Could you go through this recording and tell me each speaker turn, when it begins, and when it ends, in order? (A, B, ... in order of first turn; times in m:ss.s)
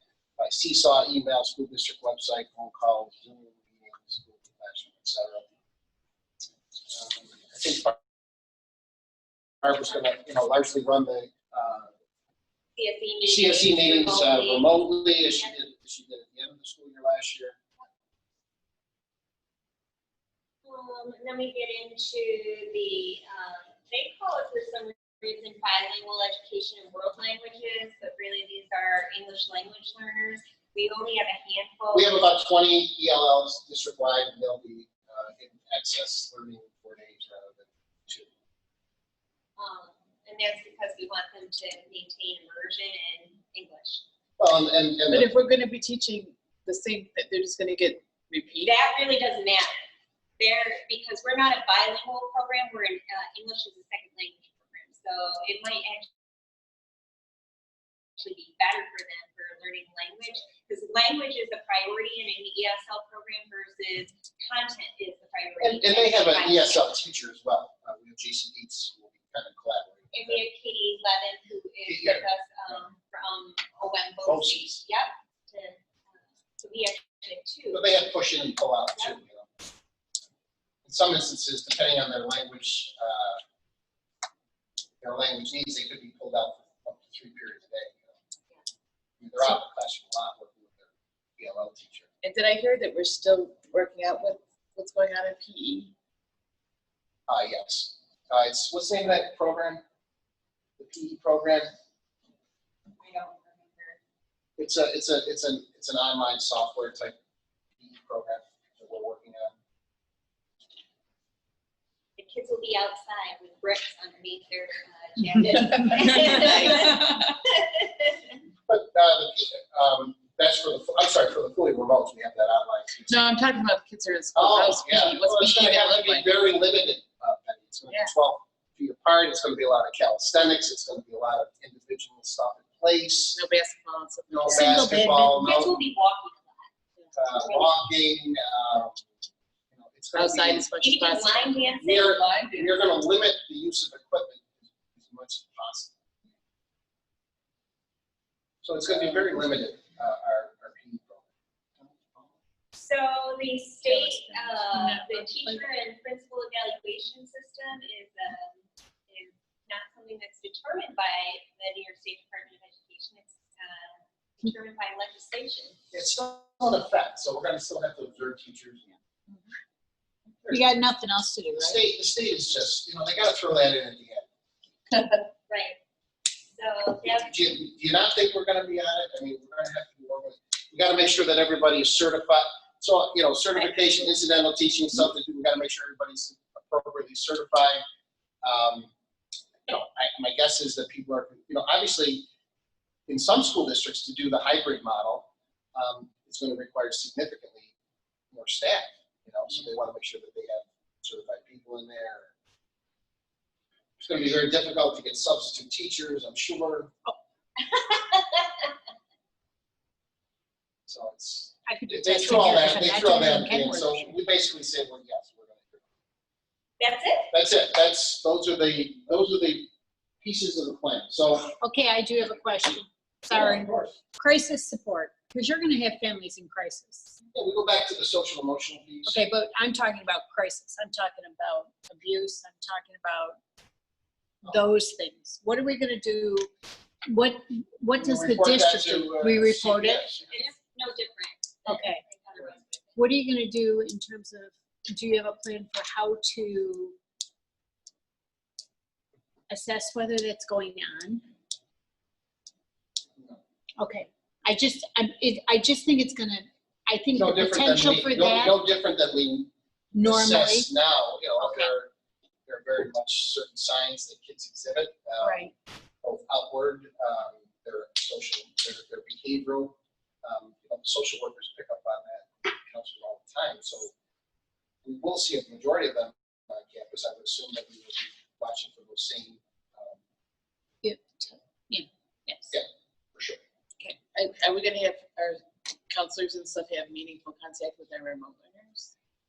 0:00.4-0:05.5 A
0:06.9-0:08.0 A
0:09.6-0:11.9 A
0:12.8-0:15.5 B
0:13.2-0:17.6 A
0:20.6-0:32.3 B
0:31.9-0:38.3 A
0:39.6-0:44.0 B
0:44.4-0:45.3 A
0:45.1-0:48.8 C
0:48.6-0:49.9 B
0:50.4-0:56.1 B
0:58.2-1:06.9 B
1:05.6-1:10.4 A
1:10.1-1:17.8 B
1:11.8-1:12.3 A
1:14.2-1:14.8 A
1:17.7-1:19.5 A
1:20.8-1:23.4 A
1:25.0-1:28.1 A
1:29.2-1:32.1 A
1:32.2-1:35.9 C
1:37.3-1:39.8 A
1:40.8-1:41.7 A
1:43.0-1:44.0 B
1:44.6-1:47.2 A
1:47.8-1:49.5 A
1:52.2-1:58.4 B
1:55.9-1:56.5 C
1:58.7-2:03.2 A
2:03.1-2:06.4 C
2:04.3-2:13.4 A
2:07.9-2:08.1 C
2:13.3-2:14.8 C
2:14.3-2:15.7 A
2:14.5-2:15.4 D
2:15.3-2:16.7 B
2:17.1-2:19.1 A
2:17.3-2:17.7 B
2:19.7-2:20.7 A
2:20.1-2:21.7 C
2:20.8-2:23.0 B
2:21.8-2:25.9 A
2:28.6-2:31.2 A
2:31.8-2:32.3 A
2:32.7-2:45.8 B
2:33.8-2:35.6 D
2:45.9-2:48.8 A
2:50.5-2:51.8 D
2:51.5-2:54.2 A
2:55.1-2:55.8 B
2:56.5-2:57.3 B
2:57.0-3:07.8 A
3:08.4-3:08.9 A
3:09.6-3:12.2 A
3:13.1-3:17.7 A
3:18.3-3:22.3 A
3:24.0-3:26.9 A
3:27.6-3:28.7 B
3:30.9-3:35.8 A
3:31.6-3:34.1 D
3:36.8-3:37.3 B
3:37.3-3:39.7 A
3:40.2-3:41.6 A
3:41.6-3:47.2 D
3:43.3-3:44.0 A
3:47.3-3:49.2 A
3:49.0-3:53.4 D
3:54.4-3:56.5 D
3:57.1-4:00.0 D
3:58.0-4:00.5 A
4:00.3-4:03.0 B
4:01.6-4:02.0 D
4:03.0-4:07.0 D
4:09.5-4:11.2 D
4:13.8-4:18.6 D
4:17.1-4:21.9 A
4:19.9-4:20.7 D
4:22.5-4:25.5 A
4:25.2-4:25.5 D
4:26.0-4:33.9 A
4:34.8-4:40.0 A
4:40.8-4:42.5 D
4:42.5-4:43.4 A
4:44.1-4:48.9 C